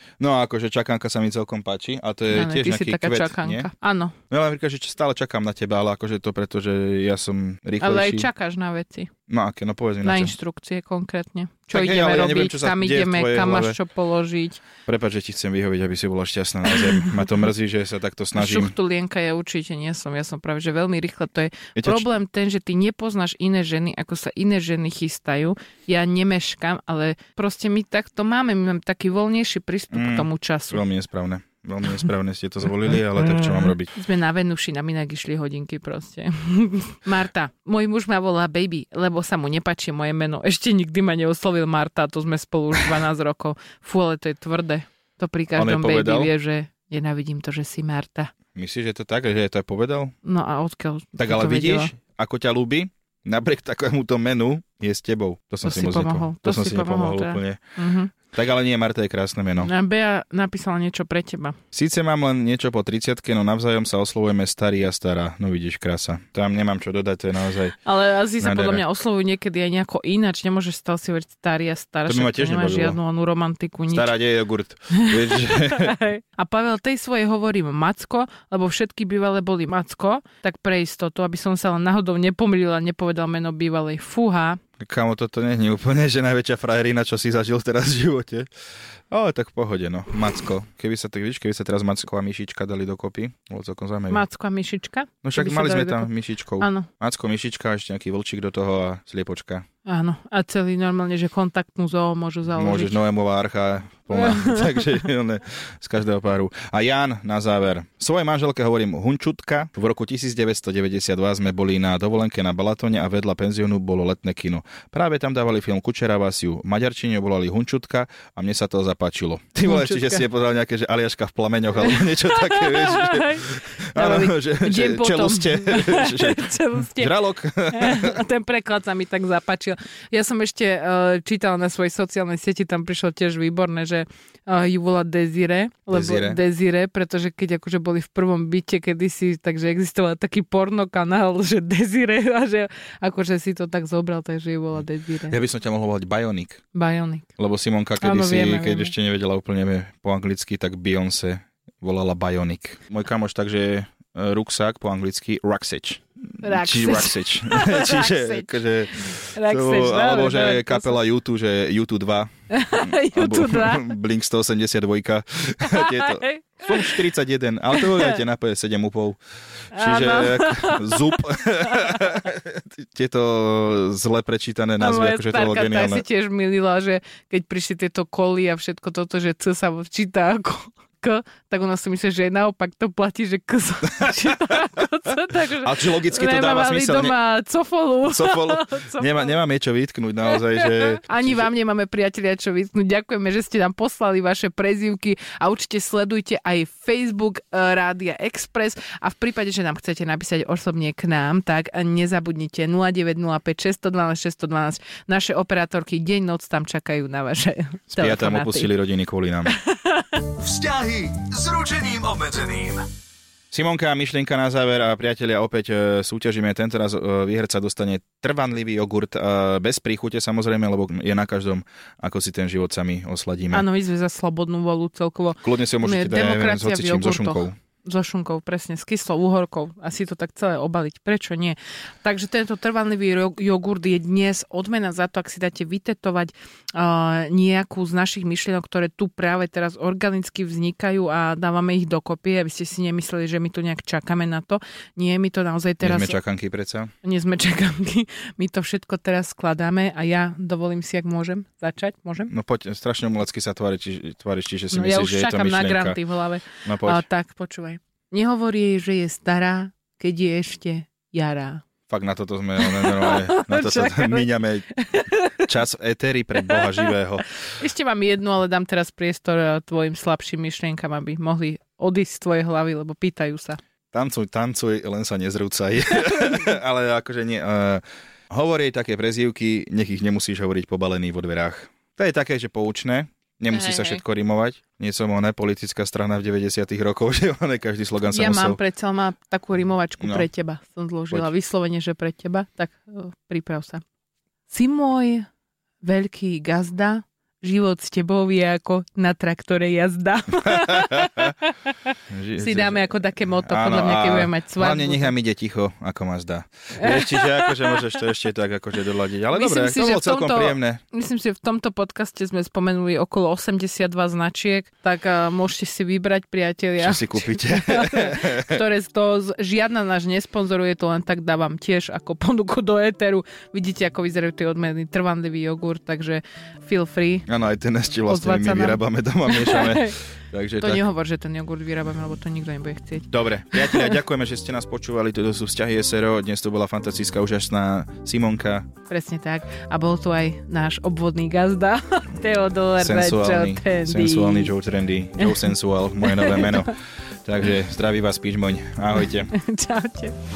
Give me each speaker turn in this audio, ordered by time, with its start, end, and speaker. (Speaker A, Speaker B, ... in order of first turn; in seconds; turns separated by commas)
Speaker A: 0.2-3.7, Speaker B: 2.3-4.2, Speaker A: 4.3-8.3, Speaker B: 7.8-9.1, Speaker A: 9.3-10.4, Speaker B: 10.0-14.7, Speaker A: 11.7-13.8, Speaker A: 14.9-18.7, Speaker B: 18.4-30.8, Speaker A: 21.8-22.1, Speaker A: 29.9-33.9, Speaker B: 33.4-48.3, Speaker A: 45.5-46.3, Speaker A: 48.5-50.1, Speaker B: 50.2-51.9, Speaker A: 51.2-57.6, Speaker B: 55.6-58.1, Speaker A: 58.3-59.7, Speaker B: 59.6-61.6, Speaker A: 61.7-67.8, Speaker B: 67.8-74.1, Speaker A: 68.4-68.8, Speaker A: 72.1-73.0, Speaker A: 73.9-76.0, Speaker B: 74.9-84.6, Speaker A: 84.8-88.5, Speaker A: 89.1-94.2, Speaker B: 94.1-96.9, Speaker A: 95.2-99.7, Speaker B: 99.9-103.0, Speaker A: 102.6-128.2, Speaker B: 104.1-105.0, Speaker B: 119.7-120.2, Speaker B: 121.8-145.4, Speaker A: 135.9-136.4, Speaker A: 145.3-146.6, Speaker B: 146.7-147.3, Speaker A: 147.4-169.2, Speaker B: 148.0-148.9, Speaker B: 156.4-161.0, Speaker B: 162.5-163.9, Speaker B: 165.7-167.0, Speaker B: 167.7-168.2, Speaker A: 169.7-176.1, Speaker B: 169.7-172.2, Speaker B: 174.8-189.3, Speaker A: 185.6-187.2, Speaker A: 188.1-191.5, Speaker B: 190.3-208.7, Speaker A: 207.9-209.6, Speaker B: 209.5-210.1, Speaker C: 210.3-212.9, Speaker A: 213.5-223.7, Speaker B: 223.5-246.2, Speaker A: 225.4-227.6, Speaker A: 245.8-246.9, Speaker B: 247.0-252.3, Speaker A: 252.3-256.0, Speaker B: 254.7-261.6, Speaker A: 256.6-257.0, Speaker A: 261.9-264.7, Speaker B: 262.6-265.5, Speaker A: 265.4-267.3, Speaker B: 266.5-266.9, Speaker B: 267.6-273.6, Speaker A: 273.9-288.6, Speaker B: 276.1-276.4, Speaker B: 283.5-284.0, Speaker B: 288.1-293.8, Speaker A: 290.0-290.3, Speaker B: 294.5-295.3, Speaker B: 295.8-305.1, Speaker A: 300.5-301.3, Speaker A: 302.1-302.8, Speaker A: 303.4-310.8, Speaker B: 306.8-307.9, Speaker B: 309.3-327.3, Speaker A: 316.8-318.6, Speaker A: 327.3-330.8, Speaker B: 328.1-329.9, Speaker B: 330.6-333.9, Speaker A: 333.1-338.7, Speaker B: 338.9-344.5, Speaker A: 342.8-346.7, Speaker B: 345.2-346.7, Speaker A: 347.2-349.3, Speaker B: 349.3-350.2